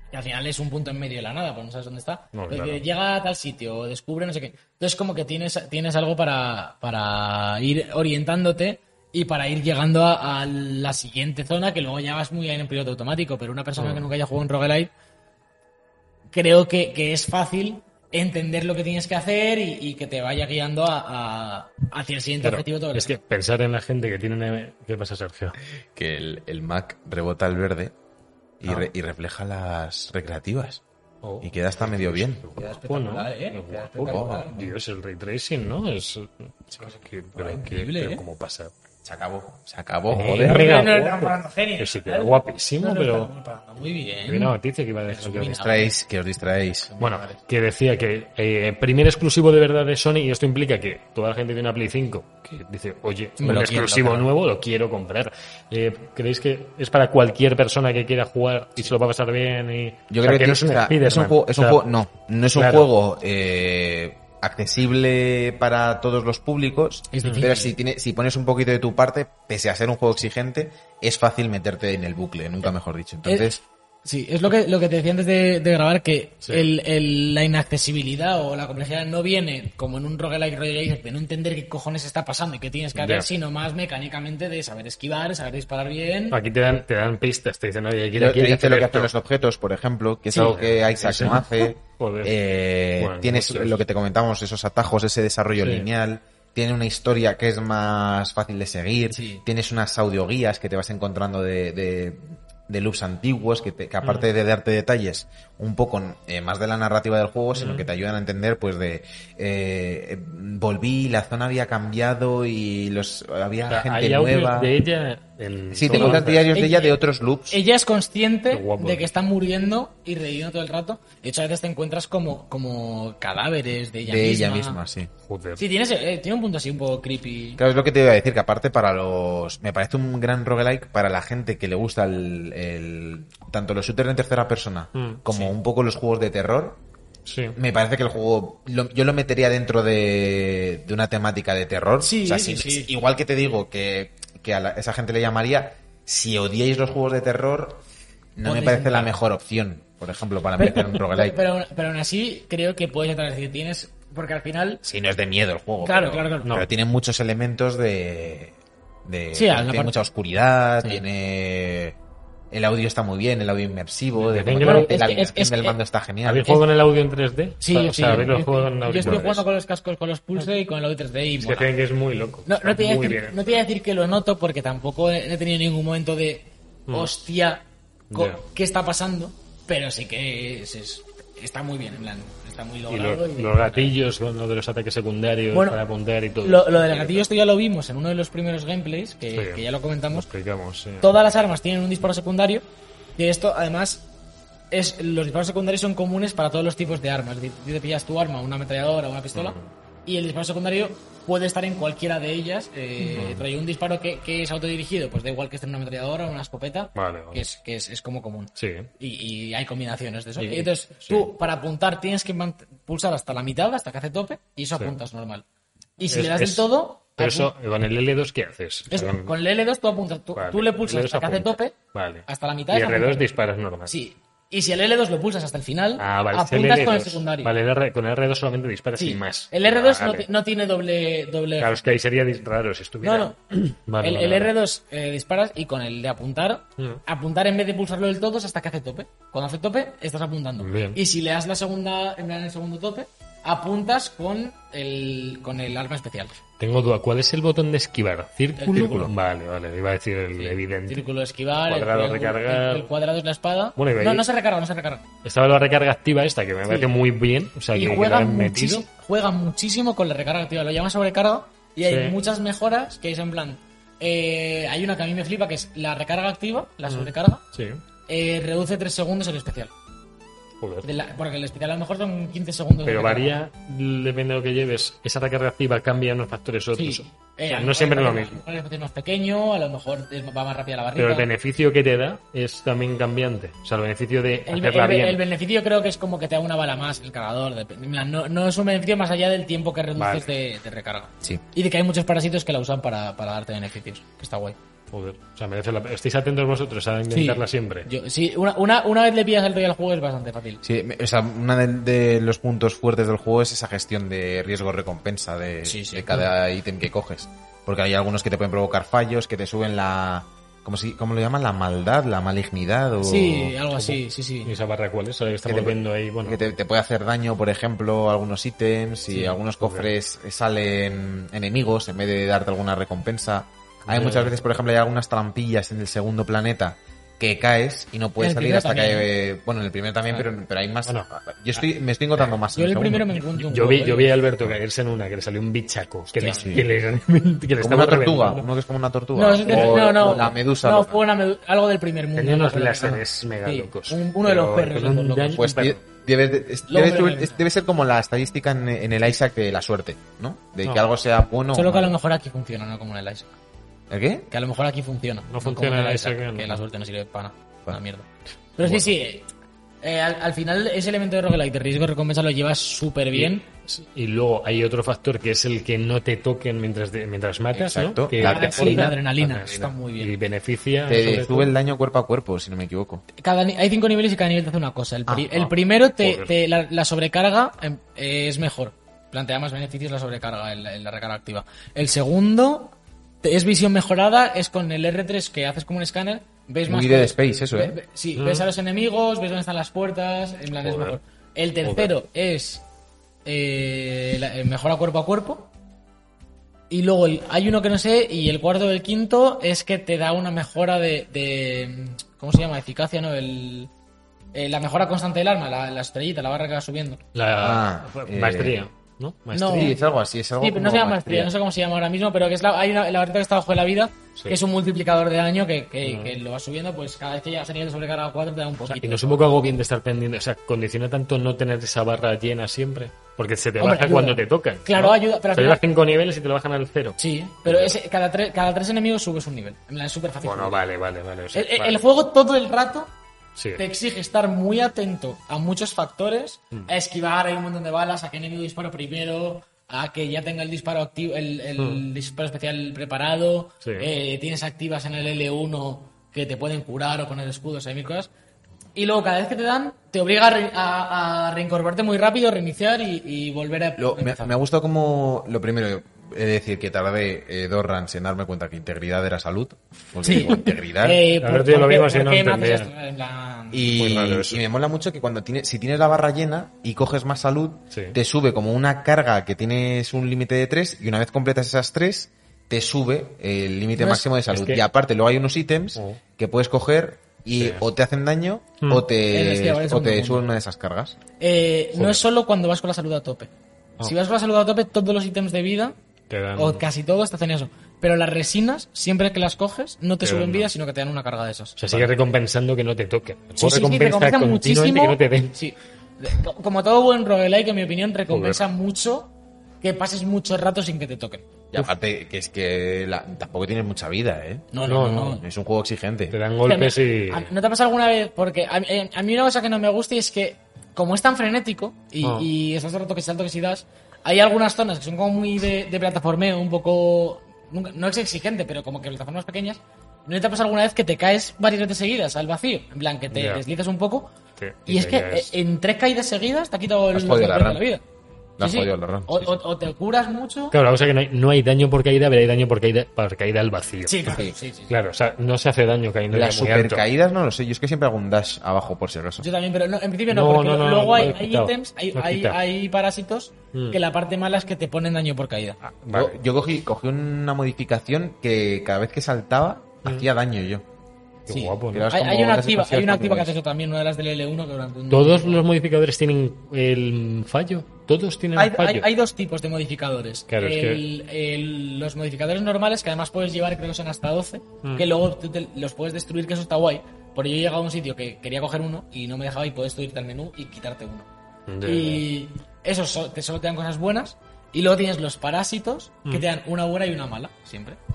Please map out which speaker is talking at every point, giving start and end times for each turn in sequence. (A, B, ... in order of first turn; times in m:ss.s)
0:00.1-0:14.9 A
0:02.3-0:02.8 B
0:13.8-0:14.0 B
0:16.3-0:23.2 A
0:22.4-0:25.6 B
0:25.9-0:27.9 C
0:28.6-0:30.8 C
0:31.2-0:38.7 B
0:31.4-0:32.5 C
0:32.5-0:34.7 A
0:34.0-0:34.5 C
0:36.7-0:38.2 A
0:39.0-0:40.8 C
0:40.1-0:43.3 B
0:40.4-0:44.5 A
0:44.3-0:45.6 B
0:45.1-0:45.9 A
0:45.6-0:46.9 C
0:46.9-0:47.4 A
0:47.0-1:01.8 B
0:53.4-0:54.2 A
1:00.1-1:13.6 C
1:02.5-1:02.9 B
1:07.1-1:07.7 A
1:13.2-1:13.5 A
1:14.0-1:26.4 A
1:23.0-1:23.3 B
1:26.3-1:29.1 B
1:28.2-1:54.7 C
1:30.4-1:32.4 B
1:33.0-1:33.8 B
1:35.6-1:35.8 B
1:39.1-1:39.4 A
1:44.0-1:44.3 B
1:47.5-1:47.9 B
1:53.7-1:56.5 B
1:55.7-1:57.6 C
1:55.9-1:57.0 A
1:57.5-2:04.8 A
1:58.5-1:59.1 B
2:04.0-2:05.1 C
2:05.2-2:05.6 B
2:05.6-2:07.6 A
2:07.6-2:16.8 C
2:14.9-2:15.5 B
2:17.2-2:17.6 B
2:17.5-2:27.8 C
2:22.0-2:22.9 A
2:28.4-2:31.4 C
2:28.4-2:29.1 A
2:30.6-2:34.8 A
2:34.8-2:42.0 C
2:35.8-2:36.5 A
2:39.3-2:39.9 A
2:42.5-2:46.6 C
2:44.2-2:45.0 B
2:44.6-2:45.8 A
2:46.2-2:49.4 B
2:47.6-2:51.7 A
2:51.4-2:53.6 B
2:52.4-3:03.9 A
2:58.1-2:58.4 B
3:02.9-3:07.3 B
3:05.5-3:05.8 A
3:06.4-3:10.3 A
3:09.3-3:11.1 B
3:11.0-3:12.6 A
3:13.2-3:14.0 A
3:14.7-3:35.4 A
3:19.3-3:19.7 B
3:23.1-3:23.4 B
3:26.9-3:27.4 B
3:28.6-3:28.9 B
3:30.4-3:31.3 B
3:36.0-3:37.5 A
3:36.1-3:39.3 B
3:38.9-3:41.8 A
3:40.4-3:43.9 B
3:42.3-3:43.2 A
3:43.9-3:47.5 A
3:46.0-3:50.3 B
3:49.0-3:51.7 A
3:51.6-3:54.5 B
3:53.0-3:53.4 A
3:54.0-4:06.4 A
4:00.6-4:01.0 B
4:06.6-4:11.0 B
4:08.6-4:09.1 A
4:10.4-4:15.0 A
4:11.6-4:12.9 B
4:13.8-4:14.2 B
4:15.2-4:18.8 B
4:17.7-4:27.4 A
4:21.8-4:22.2 B
4:26.9-4:27.8 B
4:28.1-4:29.7 A
4:30.6-4:30.9 B
4:30.8-4:33.3 A
4:32.8-4:38.4 B
4:36.8-4:41.3 A
4:41.0-4:45.2 B
4:44.5-4:54.6 A
4:50.0-4:50.3 B
4:54.9-4:57.9 B
4:57.1-5:00.6 A
5:00.6-5:13.5 C
5:05.6-5:06.2 A
5:13.0-5:14.5 A
5:13.8-5:16.4 B
5:15.4-5:33.1 C
5:19.1-5:19.9 B
5:23.9-5:24.4 B
5:28.2-5:29.1 A
5:32.5-5:34.1 A
5:33.3-5:38.5 B
5:36.1-5:36.5 A
5:36.3-5:36.6 C
5:37.6-5:41.0 C
5:39.1-5:45.5 A
5:39.4-5:40.3 B
5:42.2-5:45.8 B
5:45.3-5:51.9 C
5:46.7-5:47.4 A
5:51.5-5:53.3 A
5:53.9-5:54.3 C
5:54.3-5:59.3 A
5:55.3-5:56.6 B
5:59.8-6:03.4 A
6:03.1-6:11.5 B
6:07.5-6:08.9 C
6:08.2-6:10.1 A
6:10.8-6:13.0 C
6:13.2-6:32.6 A
6:15.3-6:16.3 B
6:26.7-6:27.8 C
6:28.2-6:28.5 B
6:30.6-6:31.0 B
6:31.6-6:31.9 B
6:33.2-6:35.5 A
6:36.7-6:43.7 A
6:44.3-6:47.0 A
6:47.1-6:49.8 B
6:47.4-6:48.6 C
6:49.3-6:49.7 A
6:49.5-6:51.3 C
6:50.4-6:59.4 A
6:55.8-6:56.2 B
6:58.7-7:07.8 B
7:03.6-7:05.6 A
7:07.0-7:10.6 A
7:10.2-7:11.8 B
7:11.3-7:12.9 A
7:13.4-7:13.6 B
7:13.6-7:28.1 A
7:21.6-7:21.8 B
7:23.6-7:23.9 B
7:28.8-7:34.3 A
7:33.8-7:41.0 C
7:40.0-7:43.8 A
7:41.2-7:42.7 B
7:43.5-8:01.0 C
7:43.7-7:44.4 B
7:47.7-7:48.0 B
7:53.8-7:54.1 A
7:54.3-7:54.6 B
7:55.8-7:56.0 B
7:57.3-7:57.6 B
7:58.6-7:58.8 B
7:59.1-8:00.3 A
8:01.2-8:03.3 A
8:01.8-8:02.0 B
8:03.8-8:05.8 A
8:06.1-8:06.6 B
8:06.4-8:11.9 A
8:10.0-8:10.5 B
8:11.6-8:15.4 B
8:13.4-8:21.3 A
8:18.1-8:18.4 B
8:21.5-8:24.5 C
8:24.5-8:25.2 A
8:24.6-8:25.2 B
8:25.2-8:26.2 C
8:26.1-8:27.3 B
8:26.4-8:44.1 A
8:32.0-8:32.3 B
8:43.1-8:43.4 B
8:44.4-8:45.3 B
8:44.7-8:47.8 A
8:46.9-8:47.6 C
8:48.4-8:49.4 C
8:48.4-8:50.6 A
8:50.5-8:56.8 B
8:53.8-8:54.7 A
8:56.1-8:59.2 C
8:59.2-9:05.6 A
9:00.1-9:02.4 B
9:05.6-9:06.2 B
9:05.9-9:10.6 C
9:11.3-9:11.9 B
9:11.3-9:15.4 A
9:11.7-9:13.3 C
9:14.9-9:18.9 B
9:18.4-9:31.1 A
9:20.3-9:20.8 B
9:24.6-9:24.9 B
9:31.5-9:32.0 B
9:31.6-9:37.8 A